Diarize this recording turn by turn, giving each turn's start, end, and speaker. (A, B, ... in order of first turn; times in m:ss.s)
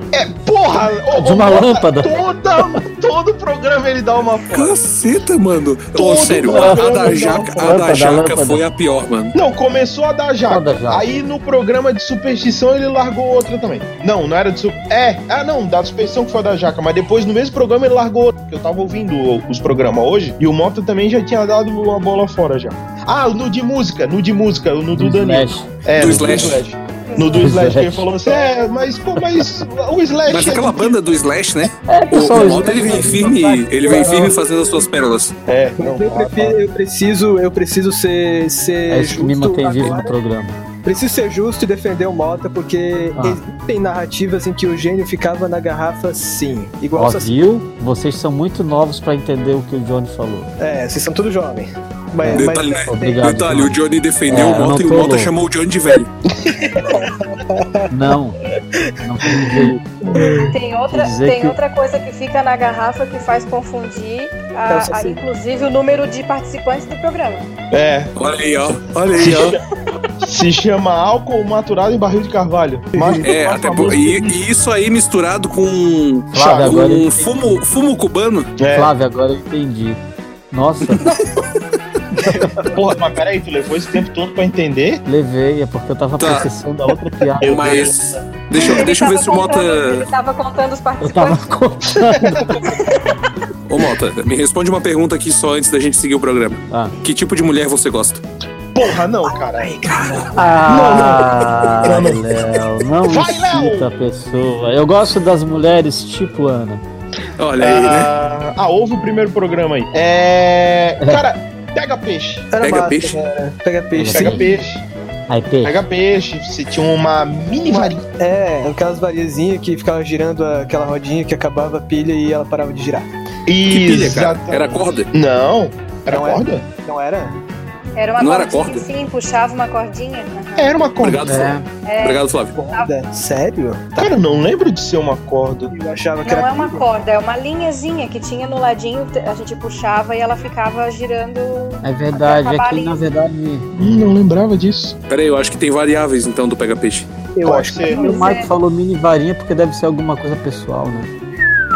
0:00.1-0:04.8 A
0:01.1-0:02.1 B
0:04.5-0:09.4 C
0:06.0-0:07.8 A
0:06.4-0:08.6 B
0:09.3-0:31.0 A
0:10.5-0:11.2 B
0:24.9-0:26.6 B
0:26.0-0:26.6 C
0:27.1-0:27.5 D
0:27.3-0:28.1 B
0:30.3-0:35.3 C
0:31.9-0:34.3 B
0:32.4-0:33.3 E
0:33.8-0:34.3 E
0:35.5-0:36.6 A
0:35.8-0:40.2 E
0:38.9-0:40.6 B
0:40.8-0:47.4 E
0:43.2-0:43.4 B
0:47.0-0:50.6 B
0:50.6-0:53.3 E
0:52.2-0:55.3 B
0:52.4-0:56.1 C
0:56.5-0:57.0 A
0:56.7-0:57.9 E
0:57.9-0:58.4 B
0:58.8-1:00.5 E
0:59.0-0:59.8 B
1:00.5-1:07.5 D
1:00.9-1:01.6 B
1:04.7-1:05.2 E
1:07.7-1:08.1 A
1:08.2-1:09.6 C
1:09.2-1:09.6 A
1:10.2-1:14.4 A
1:12.9-1:13.3 E
1:13.2-1:18.6 C
1:16.3-1:17.6 B
1:16.4-1:16.8 A
1:18.6-1:18.9 A
1:18.7-1:21.1 B
1:22.2-1:22.8 E
1:22.2-1:22.8 B
1:22.7-1:25.0 A
1:25.1-1:27.9 B
1:26.2-1:26.5 C
1:27.4-1:28.0 A
1:27.4-1:30.1 C
1:28.6-1:31.5 D
1:31.0-1:32.6 B
1:32.1-1:32.7 A
1:33.7-1:38.2 C
1:36.7-1:37.0 B
1:38.7-1:39.8 A
1:39.3-1:41.1 E
1:40.4-1:46.8 B
1:40.7-1:41.2 A
1:41.8-1:42.2 A
1:43.0-1:43.9 A
1:47.4-1:48.1 C
1:47.6-1:52.5 A
1:52.5-1:54.6 E
1:52.6-1:53.2 C
1:53.9-1:54.5 B
1:54.1-1:54.8 A
1:55.3-1:55.8 B
1:55.6-1:58.0 A
1:57.6-2:03.1 E
2:03.5-2:06.6 A
2:03.7-2:05.1 C
2:06.1-2:07.4 E
2:08.0-2:10.8 D
2:08.2-2:08.8 C
2:10.6-2:11.5 A
2:11.0-2:12.5 C
2:11.2-2:11.7 B
2:11.8-2:12.9 D
2:12.5-2:14.1 E
2:14.0-2:15.7 A
2:15.7-2:16.8 E
2:16.2-2:23.0 D
2:21.8-2:23.7 B
2:23.8-2:25.0 A
2:25.1-2:27.1 C
2:27.4-2:28.3 E
2:27.4-2:28.1 A
2:27.9-2:28.5 D
2:28.0-2:31.1 B